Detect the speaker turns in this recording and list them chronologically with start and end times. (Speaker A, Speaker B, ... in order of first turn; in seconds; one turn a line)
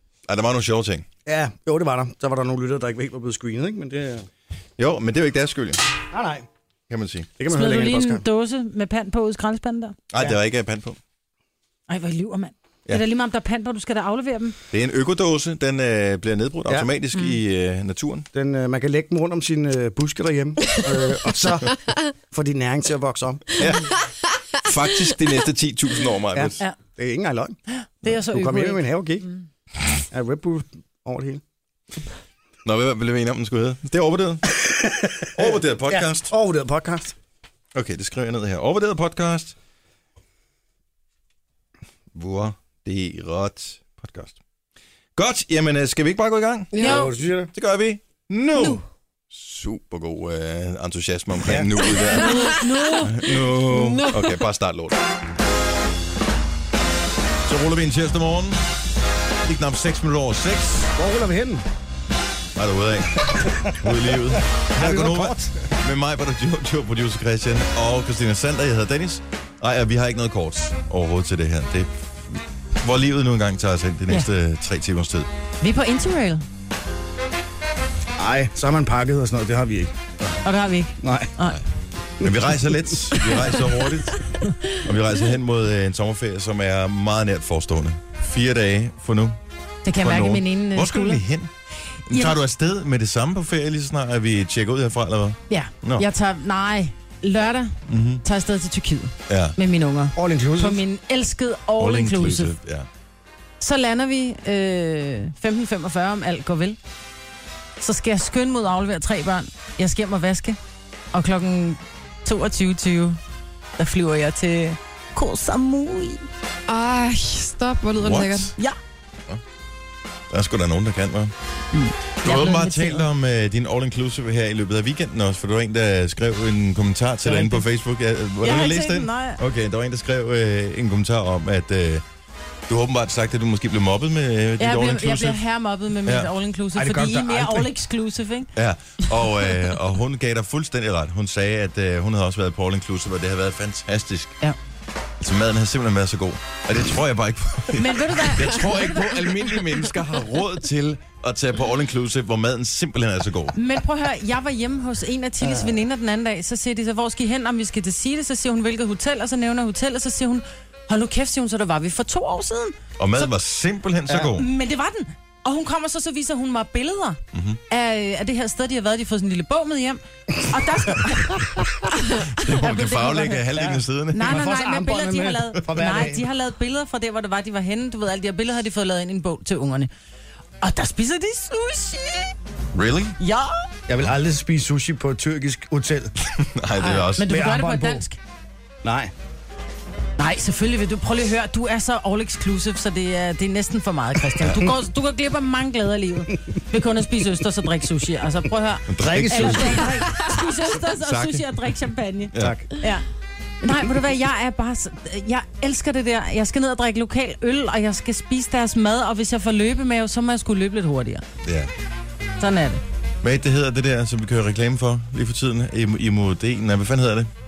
Speaker A: 0.3-1.1
Speaker B: 1.2-4.3
Speaker A: 4.8-6.0
Speaker B: 6.1-6.5
Speaker A: 6.9-7.3
Speaker B: 7.4-8.2
Speaker C: 7.5-10.0
Speaker A: 10.1-11.0
Speaker C: 11.9-14.6
Speaker A: 14.7-18.3
Speaker B: 18.3-21.7
Speaker B: 22.3-23.6
Speaker A: 23.6-24.0
Speaker A: 24.6-26.6
Speaker B: 26.3-29.3
Speaker C: 27.7-29.3
Speaker B: 30.1-31.4
Speaker A: 32.6-34.6
Speaker B: 34.6-37.1
Speaker A: 35.3-36.3
Speaker A: 37.7-39.5
Speaker A: 42.1-44.4
Speaker A: 45.2-46.9
Speaker D: 46.7-47.1
Speaker C: 46.8-47.1
Speaker B: 46.8-47.5
Speaker A: 47.5-55.0
Speaker D: 48.6-48.8
Speaker B: 51.4-51.9
Speaker D: 52.1-52.7
Speaker C: 52.1-53.3
Speaker D: 53.5-54.4
Speaker A: 57.5-58.6
Speaker A: 59.4-60.9
Speaker B: 60.9-61.6
Speaker A: 62.6-75.3
Speaker B: 63.3-65.7
Speaker C: 75.6-76.4
Speaker B: 78.2-79.9
Speaker C: 80.4-81.6
Speaker B: 81.0-81.3
Speaker A: 82.2-89.4
Speaker B: 82.2-82.9
Speaker C: 89.8-91.2
Speaker A: 90.0-91.5
Speaker A: 92.1-96.1
Speaker C: 92.1-92.3
Speaker C: 95.5-102.5
Speaker A: 97.9-98.2
Speaker A: 99.3-99.6
Speaker B: 100.2-100.8
Speaker A: 101.8-102.9
Speaker C: 103.6-106.8
Speaker C: 107.8-110.6
Speaker C: 111.1-113.2
Speaker C: 113.8-116.3
Speaker D: 116.7-118.5
Speaker A: 118.0-118.5
Speaker A: 120.3-121.3
Speaker C: 121.7-123.0
Speaker A: 122.2-132.0
Speaker C: 127.2-127.7
Speaker C: 128.4-129.4
Speaker A: 132.7-135.4
Speaker C: 134.6-138.5
Speaker B: 136.7-137.7
Speaker A: 138.5-144.3
Speaker A: 145.2-153.5
Speaker C: 147.7-149.6
Speaker C: 153.5-163.3
Speaker A: 163.0-164.5
Speaker C: 164.3-167.2
Speaker A: 167.3-167.6
Speaker C: 167.7-171.4
Speaker A: 172.3-174.4
Speaker C: 172.4-173.4
Speaker B: 173.5-176.3
Speaker C: 174.1-179.9
Speaker C: 180.6-182.3
Speaker A: 182.7-183.2
Speaker C: 183.2-183.5
Speaker B: 183.9-186.1
Speaker A: 186.2-187.4
Speaker C: 186.8-188.2
Speaker B: 187.2-188.0
Speaker B: 188.8-189.1
Speaker C: 190.2-203.1
Speaker A: 194.4-194.8
Speaker A: 198.9-201.7
Speaker B: 199.0-200.0
Speaker A: 202.3-202.6
Speaker B: 202.3-202.7
Speaker C: 203.6-211.2
Speaker A: 211.4-211.7
Speaker C: 212.4-212.8
Speaker A: 213.2-217.3